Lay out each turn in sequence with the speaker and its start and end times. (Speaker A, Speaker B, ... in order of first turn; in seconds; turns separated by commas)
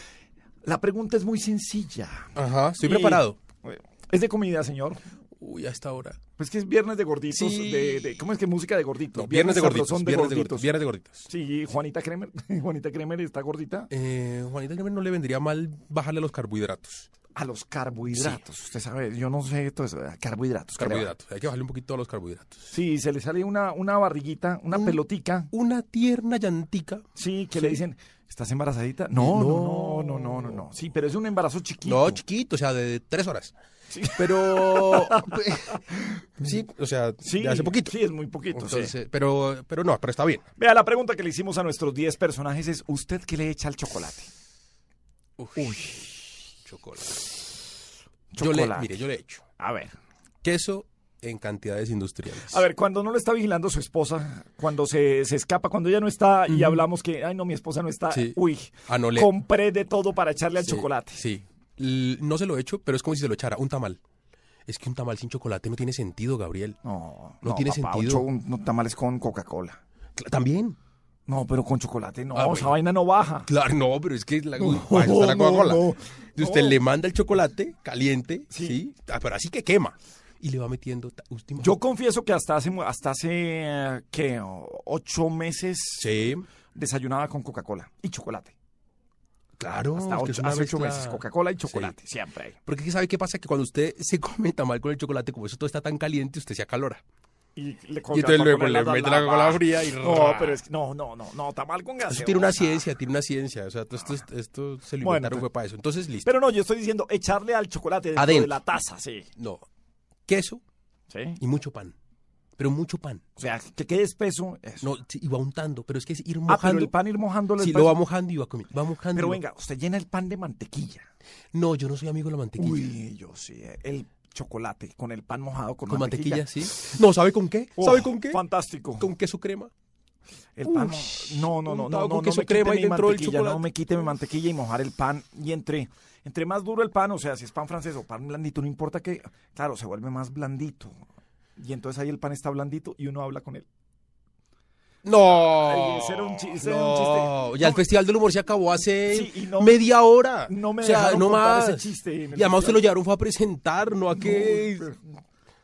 Speaker A: 0.6-5.0, Speaker B: 2.3-3.4, Speaker B: 5.4-6.2, Speaker A: 6.4-10.7, Speaker B: 7.3-8.2, Speaker B: 9.1-11.2, Speaker A: 11.3-13.9, Speaker B: 13.9-17.1, Speaker A: 17.3-21.1, Speaker B: 18.1-18.4, Speaker B: 20.8-22.7, Speaker A: 22.7-25.5, Speaker B: 24.7-25.0, Speaker B: 25.5-27.0, Speaker A: 27.1-32.2, Speaker B: 27.6-27.8, Speaker B: 29.1-30.6, Speaker B: 31.8-33.5, Speaker A: 33.9-35.3, Speaker B: 34.1-35.8, Speaker A: 35.9-36.2, Speaker B: 36.4-37.9, Speaker A: 37.2-38.9, Speaker B: 38.5-40.4, Speaker A: 40.6-44.3, Speaker B: 45.4-46.0, Speaker A: 45.5-46.1, Speaker B: 46.6-47.4, Speaker A: 48.3-48.9, Speaker B: 48.4-49.4, Speaker A: 49.6-50.0, Speaker B: 50.4-52.6, Speaker A: 52.5-61.2, Speaker B: 56.5-56.8, Speaker B: 58.1-58.4, Speaker B: 58.9-59.3, Speaker B: 60.6-64.0, Speaker B: 64.7-66.8, Speaker A: 66.8-69.8, Speaker B: 67.4-68.3, Speaker B: 70.2-70.8, Speaker A: 71.3-73.5, Speaker B: 72.3-72.7, Speaker B: 73.5-81.8, Speaker A: 74.6-76.8, Speaker A: 78.5-78.8, Speaker A: 81.6-86.1, Speaker B: 86.0-86.5, Speaker A: 86.7-88.5, Speaker B: 89.6-91.9, Speaker A: 89.8-92.6, Speaker B: 92.7-97.0, Speaker A: 97.5-102.8, Speaker B: 98.1-100.6, Speaker B: 102.1-106.3, Speaker A: 105.0-105.5, Speaker A: 106.2-109.3, Speaker B: 108.2-108.5, Speaker B: 109.4-109.6, Speaker B: 110.3-110.6, Speaker A: 111.1-111.4, Speaker B: 111.4-111.9, Speaker B: 112.6-113.2, Speaker A: 113.4-114.9, Speaker B: 114.8-116.9, Speaker A: 116.5-118.0, Speaker B: 117.6-119.4, Speaker A: 119.1-121.1, Speaker B: 121.5-122.9, Speaker A: 122.6-126.5, Speaker B: 125.9-128.4, Speaker A: 127.8-129.1, Speaker B: 129.0-129.7, Speaker A: 130.5-141.0, Speaker B: 130.6-133.7, Speaker A: 141.6-143.7, Speaker B: 145.0-154.9, Speaker A: 145.4-147.8, Speaker A: 149.1-149.8, Speaker A: 150.5-152.8, Speaker A: 154.1-155.0